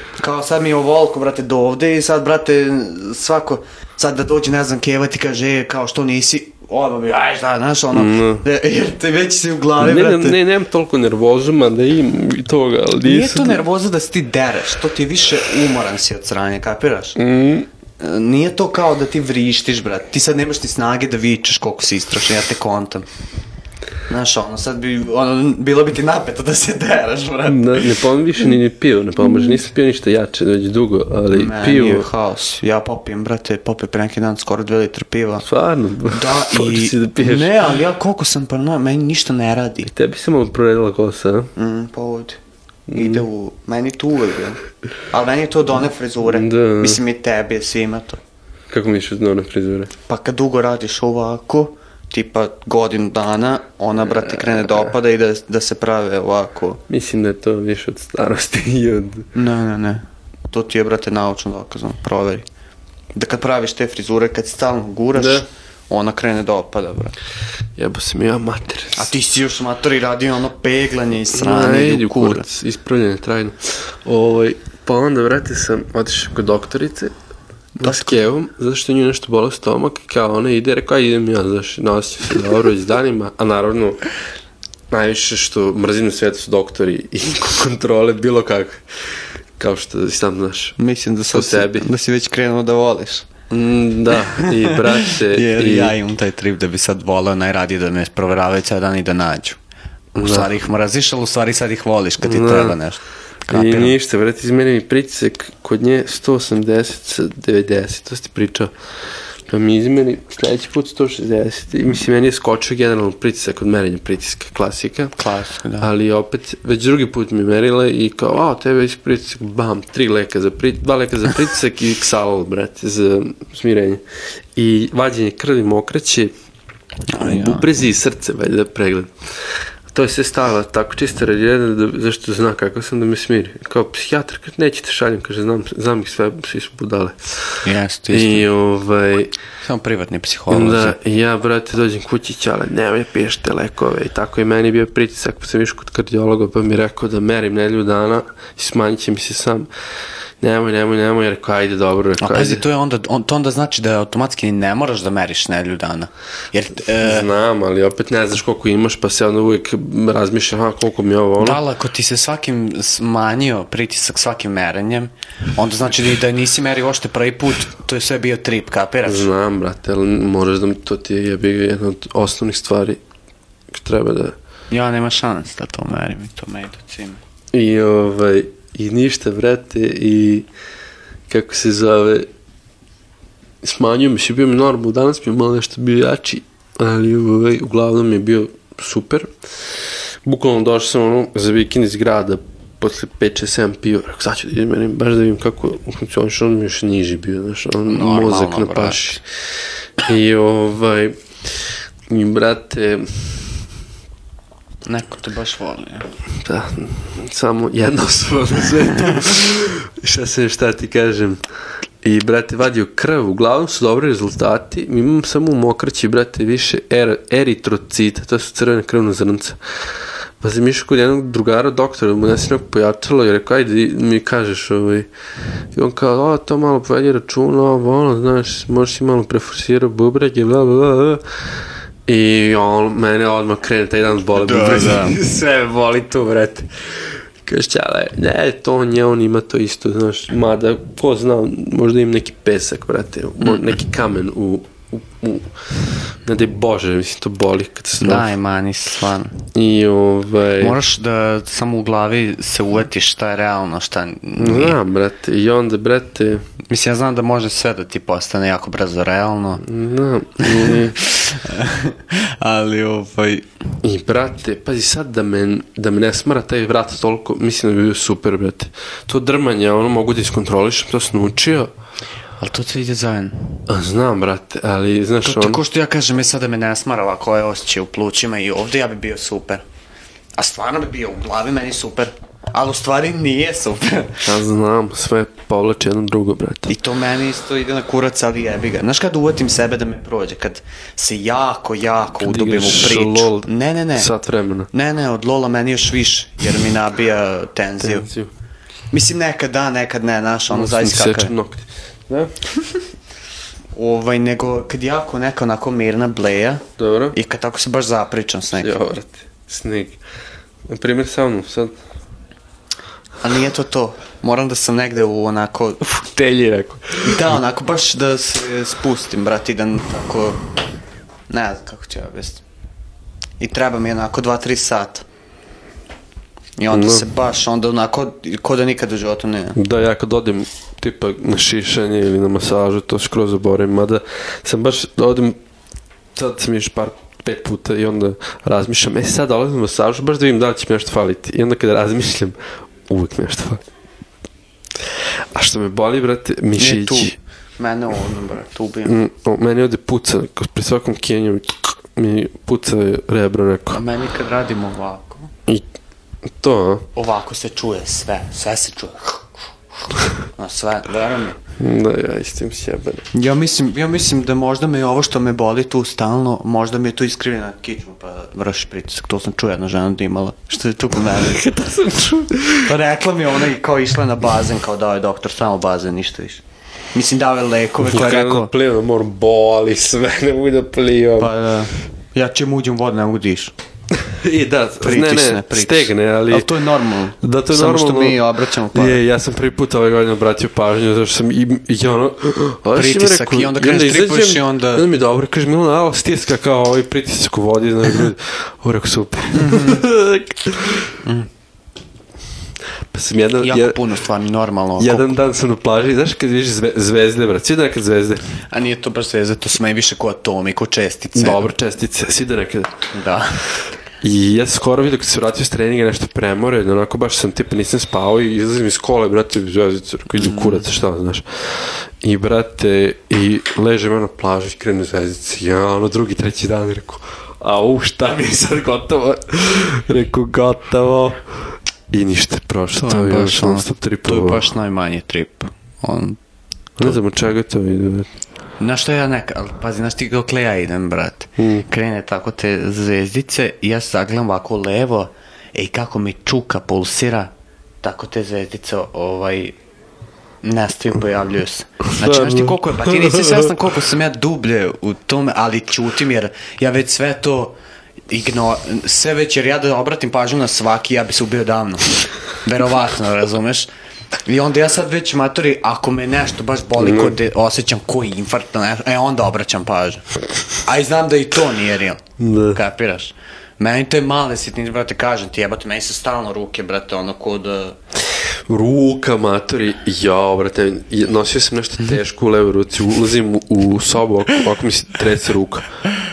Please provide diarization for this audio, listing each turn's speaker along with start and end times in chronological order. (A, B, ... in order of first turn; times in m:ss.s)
0:00.2-0:10.4 A
0:07.9-0:08.4 B
0:09.8-0:13.6 B
0:13.0-0:17.2 A
0:17.2-0:17.7 B
0:18.0-0:23.0 A
0:24.1-0:28.0 A
0:27.5-0:32.1 B
0:31.3-0:35.5 A
0:35.4-0:37.5 B
0:36.1-0:39.9 A
0:39.9-0:41.5 B
0:41.6-0:42.4 A
0:42.9-0:43.3 B
0:42.9-0:48.2 A
0:46.2-0:47.0 B
0:48.7-0:49.9 B
0:50.1-0:56.8 A
0:54.3-0:54.9 B
0:56.9-0:59.3 B
0:59.3-1:02.5 A
1:03.2-1:07.2 A
1:05.1-1:05.4 B
1:07.8-1:09.1 B
1:09.0-1:12.5 A
1:11.3-1:17.1 B
1:17.8-1:18.2 A
1:17.8-1:24.0 B
1:24.9-1:28.8 B
1:29.6-1:30.8 B
1:30.8-1:33.4 A
1:31.3-1:31.9 B
1:33.5-1:36.0 B
1:34.1-1:39.6 A
1:40.2-1:44.0 A
1:40.2-1:40.5 B
1:42.2-1:42.8 B
1:43.5-1:48.7 B
1:49.5-1:55.2 B
1:55.2-1:55.9 A
1:55.8-2:04.0 B
2:04.6-2:06.3 B
2:07.1-2:07.7 A
2:07.2-2:09.2 B
2:09.9-2:17.6 B
2:17.6-2:18.5 A
2:18.1-2:19.4 B
2:19.6-2:21.0 A
2:20.5-2:29.7 B
2:30.4-2:32.6 B
2:32.2-2:37.3 A
2:37.0-2:41.6 B
2:41.4-2:49.3 A
2:49.0-2:53.0 B
2:53.7-2:54.4 B
2:54.7-2:57.2 A
2:57.5-3:00.5 B
3:01.3-3:02.3 B
3:03.6-3:09.3 B
3:10.2-3:19.2 B
3:17.9-3:19.2 A
3:20.0-3:21.2 B
3:22.1-3:23.5 B
3:24.9-3:26.1 A
3:26.4-3:31.4 B
3:32.0-3:39.6 B
3:40.4-3:45.1 B
3:45.7-3:51.2 B
3:52.1-4:08.3 B
3:54.4-3:55.2 A
4:08.0-4:09.5 A
4:09.6-4:10.8 B
4:10.6-4:14.8 A
4:14.4-4:16.4 B
4:16.7-4:19.6 A
4:19.6-4:21.0 B
4:20.4-4:23.5 A
4:23.8-4:31.7 B
4:32.4-4:33.7 A
4:33.7-4:35.6 B
4:35.2-4:39.6 A
4:40.4-4:44.3 A
4:44.2-4:46.7 B
4:46.7-4:54.1 A
4:52.2-4:54.7 B
4:54.7-4:58.1 A
4:57.8-4:58.3 B
4:58.9-5:01.3 A
5:00.5-5:02.3 B
5:03.8-5:08.8 A
5:06.8-5:07.2 B
5:08.6-5:10.0 B
5:10.7-5:11.8 B
5:13.2-5:15.8 A
5:15.8-5:17.2 B
5:17.0-5:20.4 A
5:21.3-5:22.4 A
5:23.4-5:25.0 A
5:26.6-5:29.6 A
5:26.7-5:27.1 B
5:29.6-5:35.4 B
5:36.2-5:42.4 B
5:42.9-5:43.6 B
5:45.3-5:47.2 B
5:46.6-5:49.0 A
5:48.9-5:53.8 B
5:53.7-5:55.3 A
5:56.4-5:56.9 B
5:57.0-5:59.4 A
6:00.3-6:01.4 A
6:01.6-6:03.1 B
6:03.1-6:11.4 A
6:11.0-6:12.8 B
6:12.6-6:16.4 A
6:16.9-6:18.5 A
6:17.8-6:21.3 B
6:21.2-6:23.5 A
6:23.9-6:26.5 B
6:24.8-6:29.0 A
6:27.2-6:41.0 B
6:32.7-6:34.9 A
6:39.4-6:39.8 A
6:42.9-6:43.8 B
6:43.4-6:45.2 A
6:44.8-6:48.2 B
6:48.5-6:51.4 A
6:51.2-6:52.7 B
6:52.9-6:53.4 A
6:54.0-7:11.2 B
7:00.1-7:00.7 A
7:11.9-7:14.5 B
7:12.8-7:16.2 A
7:16.8-7:18.1 B
7:18.6-7:27.3 A
7:21.4-7:21.7 B
7:27.8-7:29.6 A
7:30.4-7:37.6 A
7:32.0-7:33.5 B
7:38.1-7:43.7 A
7:44.3-7:50.0 A
7:46.8-7:47.2 B
7:50.6-7:57.8 A
7:52.2-7:52.6 B
7:58.5-8:05.7 B